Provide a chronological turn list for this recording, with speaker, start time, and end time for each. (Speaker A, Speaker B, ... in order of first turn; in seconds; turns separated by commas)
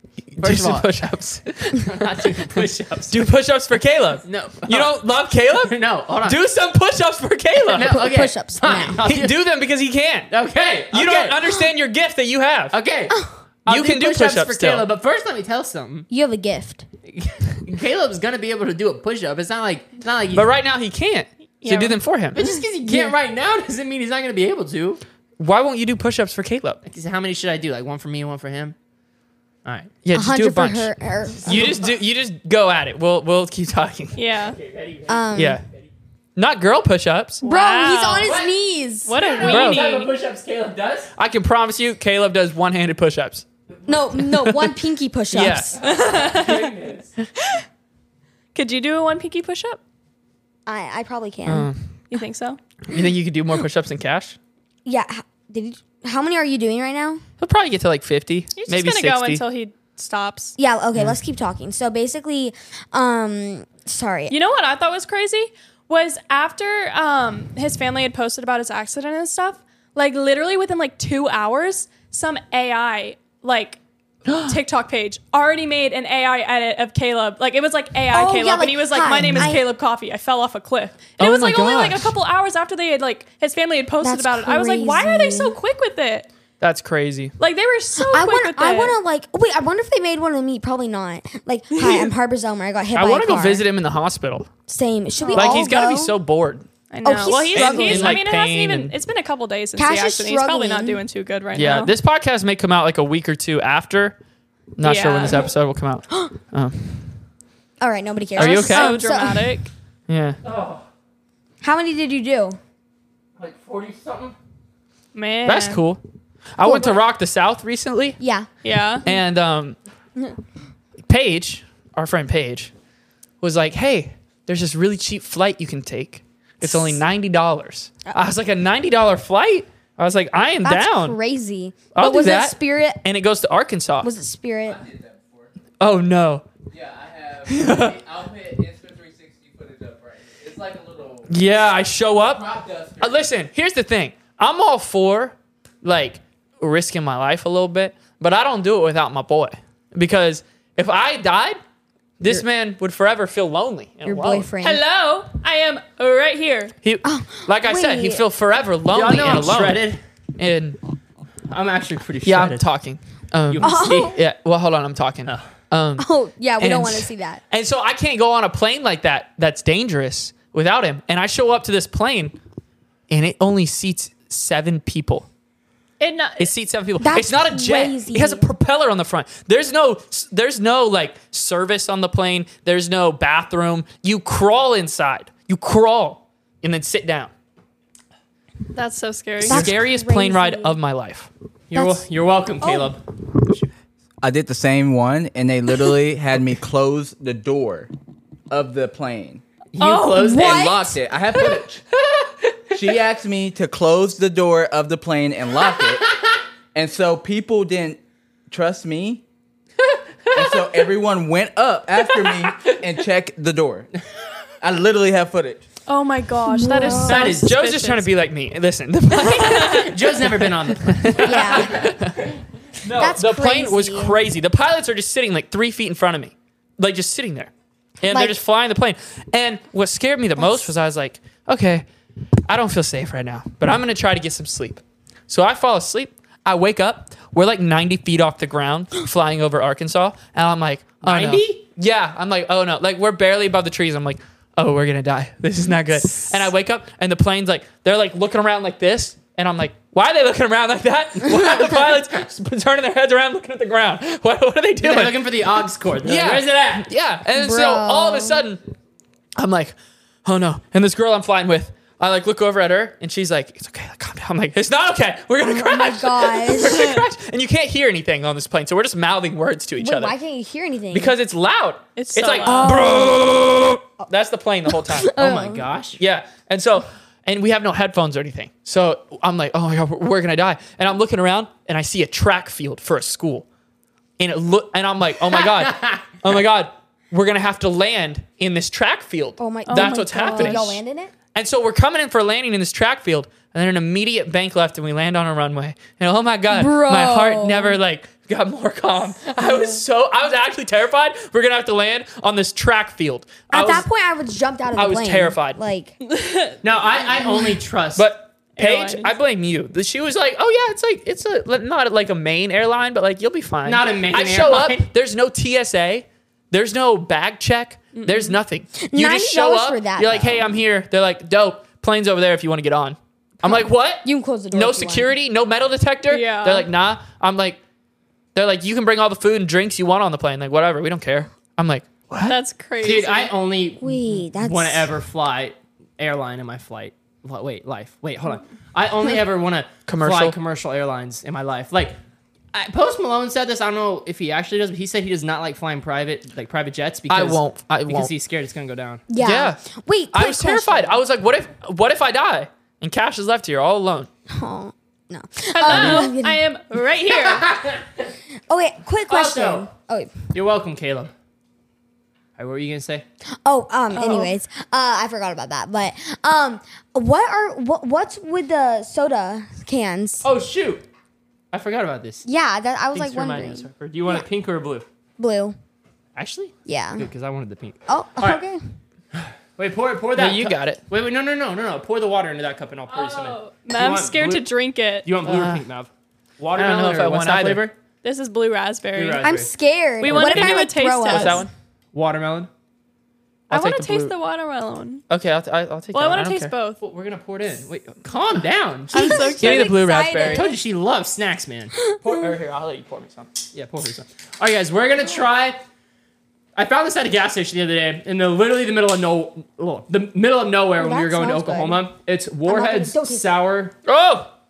Speaker A: 0.3-1.9, Speaker B: 0.4-0.9, Speaker B: 1.8-3.3, Speaker A: 3.1-8.1, Speaker B: 4.2-5.0, Speaker B: 5.6-6.4, Speaker B: 7.7-9.4, Speaker C: 7.8-9.0, Speaker A: 9.0-10.3, Speaker B: 10.3-11.5, Speaker A: 10.9-12.8, Speaker B: 12.7-16.1, Speaker C: 13.1-13.3, Speaker A: 13.7-14.9, Speaker C: 16.1-16.9, Speaker B: 17.1-20.5, Speaker A: 20.3-22.5, Speaker D: 21.6-22.0, Speaker B: 22.4-25.0, Speaker C: 22.8-23.2, Speaker A: 25.4-26.8, Speaker B: 26.9-28.8, Speaker B: 29.6-29.9, Speaker A: 30.0-30.9, Speaker C: 30.1-31.8, Speaker A: 31.4-34.2, Speaker B: 31.5-31.8, Speaker D: 34.1-34.6, Speaker B: 34.5-35.9, Speaker C: 35.1-35.6, Speaker A: 35.4-35.6, Speaker A: 36.4-37.4, Speaker D: 37.4-38.4, Speaker C: 37.4-39.2, Speaker D: 39.1-40.1, Speaker B: 39.2-41.1, Speaker A: 39.4-40.0, Speaker A: 41.2-43.5, Speaker C: 43.9-45.8, Speaker A: 44.2-44.8, Speaker A: 45.3-45.8, Speaker B: 45.8-47.1, Speaker D: 45.8-46.7, Speaker D: 48.5-49.8, Speaker C: 50.7-51.7, Speaker A: 51.5-52.0, Speaker D: 52.1-52.6, Speaker A: 52.9-54.4, Speaker C: 54.9-57.2, Speaker A: 57.4-59.4, Speaker D: 58.6-60.6, Speaker C: 60.6-64.3, Speaker D: 64.3-73.8, Speaker D: 74.5-86.3, Speaker C: 78.1-79.7, Speaker A: 81.2-82.2, Speaker C: 84.0-85.6, Speaker A: 86.6-87.3, Speaker D: 87.4-89.0, Speaker C: 88.0-93.7, Speaker D: 91.7-92.1, Speaker A: 92.9-94.5, Speaker C: 94.7-96.2, Speaker D: 95.2-95.6, Speaker A: 95.3-96.7, Speaker D: 96.9-101.9, Speaker C: 97.0-98.2, Speaker A: 97.5-99.0, Speaker C: 99.8-101.0, Speaker A: 101.5-104.2, Speaker A: 104.8-107.2, Speaker D: 104.8-105.5, Speaker C: 107.8-109.6, Speaker A: 108.4-109.0, Speaker D: 108.4-109.7, Speaker A: 110.1-110.4, Speaker B: 110.4-110.8, Speaker C: 111.6-112.6, Speaker B: 113.4-114.3, Speaker D: 115.1-115.8, Speaker A: 115.5-116.0, Speaker A: 116.6-118.2, Speaker C: 116.6-117.0, Speaker C: 118.2-118.5, Speaker D: 118.6-119.0, Speaker A: 119.0-119.8, Speaker A: 121.0-122.7, Speaker A: 123.4-131.2, Speaker C: 126.6-127.0, Speaker C: 130.6-133.0, Speaker A: 131.9-134.1, Speaker C: 134.0-134.8, Speaker E: 134.7-135.5, Speaker A: 135.8-136.4, Speaker E: 136.7-141.4, Speaker A: 137.5-138.0, Speaker A: 141.3-151.6, Speaker E: 142.3-143.2, Speaker A: 152.2-154.5, Speaker C: 154.0-154.8, Speaker D: 154.6-156.7, Speaker A: 156.8-159.8, Speaker C: 157.0-158.2, Speaker B: 158.9-160.0, Speaker A: 160.4-160.8, Speaker B: 161.5-162.7, Speaker A: 162.2-166.1, Speaker B: 163.5-164.2, Speaker C: 163.6-164.2, Speaker C: 166.0-167.4, Speaker A: 166.6-172.4, Speaker A: 173.1-175.3, Speaker D: 176.0-176.5, Speaker A: 176.4-187.3, Speaker C: 177.0-178.5, Speaker D: 188.7-189.7, Speaker C: 189.4-190.8, Speaker A: 189.4-191.3, Speaker B: 191.7-193.7, Speaker C: 191.7-192.0, Speaker C: 192.6-192.9, Speaker E: 194.2-197.9, Speaker E: 198.5-199.4, Speaker B: 199.7-200.8, Speaker C: 199.8-201.0, Speaker E: 200.3-201.8, Speaker E: 202.7-206.1, Speaker E: 206.7-209.2, Speaker E: 210.3-213.9, Speaker E: 214.6-215.6, Speaker D: 215.9-218.1, Speaker C: 216.5-217.4, Speaker B: 216.9-217.5, Speaker A: 217.2-231.9, Speaker B: 219.5-221.9, Speaker C: 221.2-221.9, Speaker C: 222.9-224.2, Speaker C: 228.0-228.4, Speaker C: 230.4-230.7, Speaker A: 232.5-255.3, Speaker B: 241.0-241.6, Speaker B: 254.8-256.9, Speaker A: 256.0-258.6, Speaker C: 257.4-258.4, Speaker A: 259.4-270.1, Speaker C: 265.4-267.0, Speaker C: 269.8-271.1, Speaker A: 270.9-275.1, Speaker D: 272.0-272.8, Speaker C: 272.4-273.2, Speaker C: 274.7-275.7, Speaker B: 275.2-276.0, Speaker A: 276.0-283.5, Speaker A: 284.2-290.8, Speaker B: 285.3-286.0, Speaker C: 289.4-291.1, Speaker D: 289.7-290.7, Speaker A: 291.4-303.9, Speaker C: 296.5-297.8, Speaker C: 303.5-306.0, Speaker A: 304.8-305.6, Speaker D: 306.0-306.6, Speaker B: 306.6-308.1, Speaker A: 307.9-327.6, Speaker D: 308.6-309.1, Speaker B: 313.6-314.9, Speaker D: 317.9-318.4, Speaker C: 318.8-320.5, Speaker C: 323.4-325.1, Speaker D: 326.1-326.7, Speaker A: 328.4-332.4, Speaker D: 332.2-333.3, Speaker B: 332.8-342.0, Speaker C: 333.8-334.9, Speaker A: 339.9-340.4, Speaker B: 342.5-349.0, Speaker A: 347.1-348.1, Speaker C: 349.1-351.0, Speaker A: 349.2-349.6, Speaker A: 350.1-354.1, Speaker C: 354.3-356.4, Speaker D: 355.5-357.5, Speaker B: 355.7-356.0, Speaker B: 357.1-358.1, Speaker C: 358.5-360.1, Speaker B: 359.1-359.7, Speaker B: 360.3-361.1, Speaker B: 362.4-363.1, Speaker C: 363.4-370.3, Speaker D: 363.9-364.3, Speaker B: 370.2-370.8, Speaker B: 371.5-372.2, Speaker C: 372.2-374.2, Speaker B: 372.9-374.9, Speaker C: 375.2-375.6, Speaker B: 376.2-378.4, Speaker C: 376.7-377.1, Speaker C: 377.9-378.6, Speaker B: 379.1-384.5, Speaker A: 380.2-380.8, Speaker D: 382.9-385.1, Speaker B: 385.1-387.8, Speaker A: 385.2-385.6, Speaker A: 386.6-387.7, Speaker D: 388.0-389.3, Speaker B: 389.0-389.5, Speaker C: 389.2-391.5, Speaker D: 390.0-391.4, Speaker A: 390.2-390.5, Speaker A: 391.1-391.5, Speaker B: 391.9-392.5, Speaker A: 393.5-394.1, Speaker D: 393.5-395.0, Speaker A: 395.1-396.5, Speaker D: 395.9-396.8, Speaker B: 396.8-399.4, Speaker D: 398.9-399.8, Speaker C: 399.0-400.6, Speaker A: 399.4-400.4, Speaker B: 400.2-401.8, Speaker C: 401.9-402.3, Speaker A: 402.0-403.4, Speaker B: 403.5-405.6, Speaker B: 406.6-413.7, Speaker C: 410.8-411.9, Speaker C: 412.5-413.3, Speaker A: 413.9-414.3